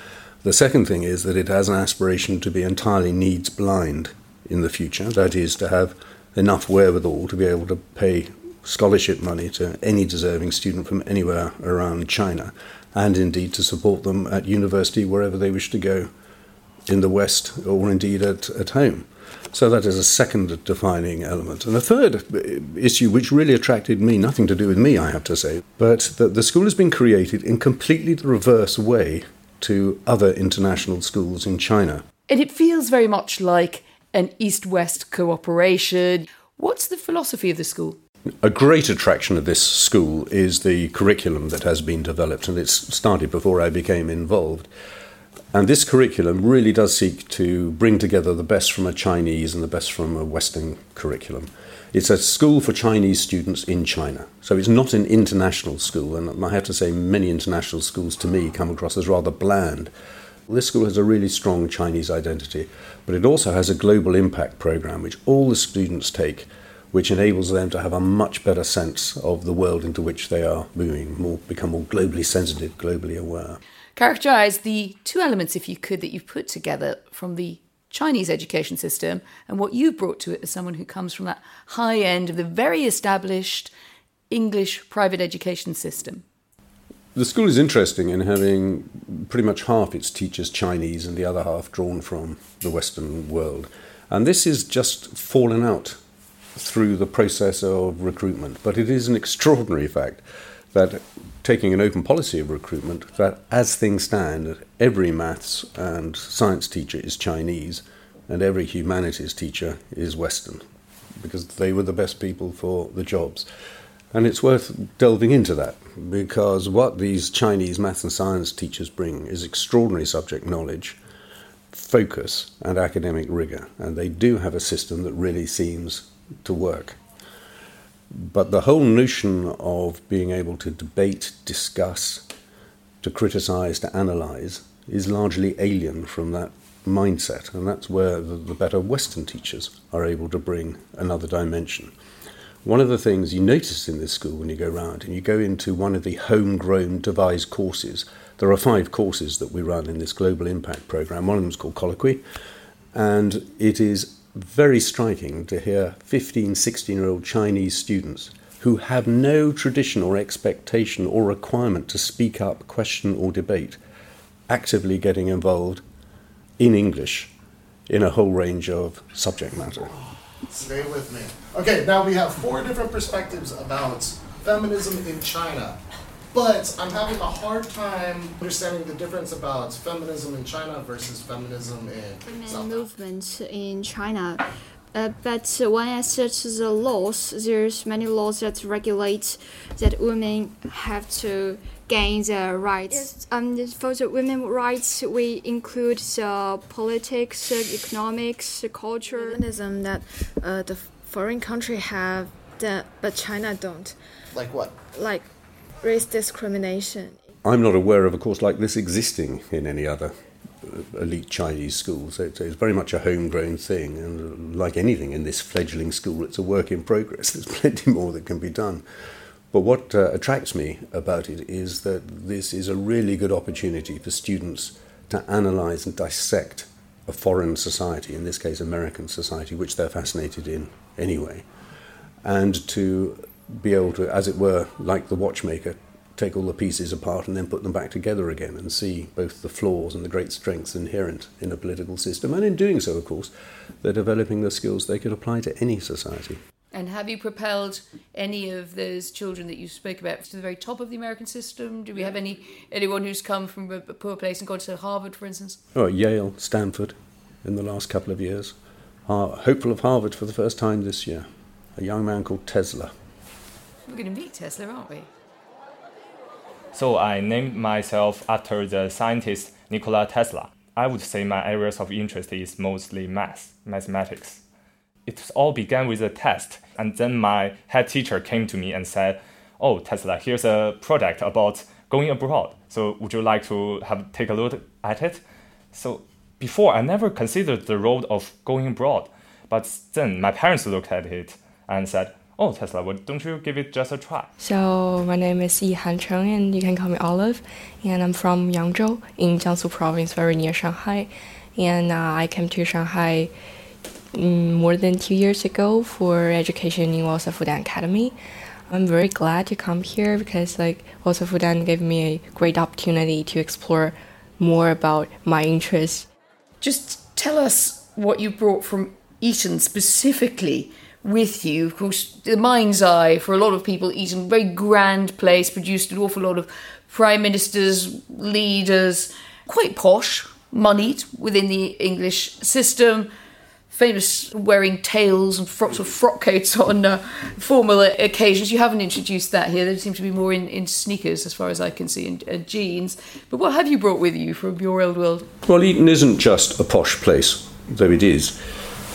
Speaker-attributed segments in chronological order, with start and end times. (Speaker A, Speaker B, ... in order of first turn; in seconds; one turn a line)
Speaker A: 0.4-16.1
Speaker A: 16.9-32.0
Speaker B: 32.3-38.0
Speaker A: 38.4-44.7
Speaker A: 45.5-59.9
Speaker A: 60.5-73.6
Speaker B: 74.0-83.7
Speaker B: 84.3-86.2
Speaker A: 87.1-96.0
Speaker A: 96.5-100.2
Speaker A: 100.7-110.6
Speaker A: 111.2-113.5
Speaker A: 114.1-121.0
Speaker A: 121.7-127.0
Speaker A: 128.1-132.2
Speaker A: 133.0-141.9
Speaker A: 142.6-152.2
Speaker A: 152.9-163.8
Speaker A: 164.5-165.8
Speaker A: 166.6-167.3
Speaker A: 167.9-169.9
Speaker C: 170.5-175.8
Speaker C: 176.3-182.9
Speaker D: 182.2-199.4
Speaker E: 192.9-193.2
Speaker E: 199.1-204.0
Speaker C: 204.3-204.7
Speaker E: 204.9-205.3
Speaker E: 205.8-207.2
Speaker A: 207.4-218.8
Speaker A: 219.5-231.4
Speaker A: 232.2-243.3
Speaker A: 243.8-246.4
Speaker B: 246.7-255.6
Speaker A: 255.7-258.5
Speaker A: 259.1-262.9
Speaker B: 263.9-265.1
Speaker F: 266.7-274.4
Speaker F: 275.1-285.2
Speaker F: 285.7-294.3
Speaker G: 294.4-303.3
Speaker G: 304.1-308.1
Speaker G: 308.7-316.1
Speaker B: 316.6-333.1
Speaker B: 333.7-345.3
Speaker A: 345.4-348.4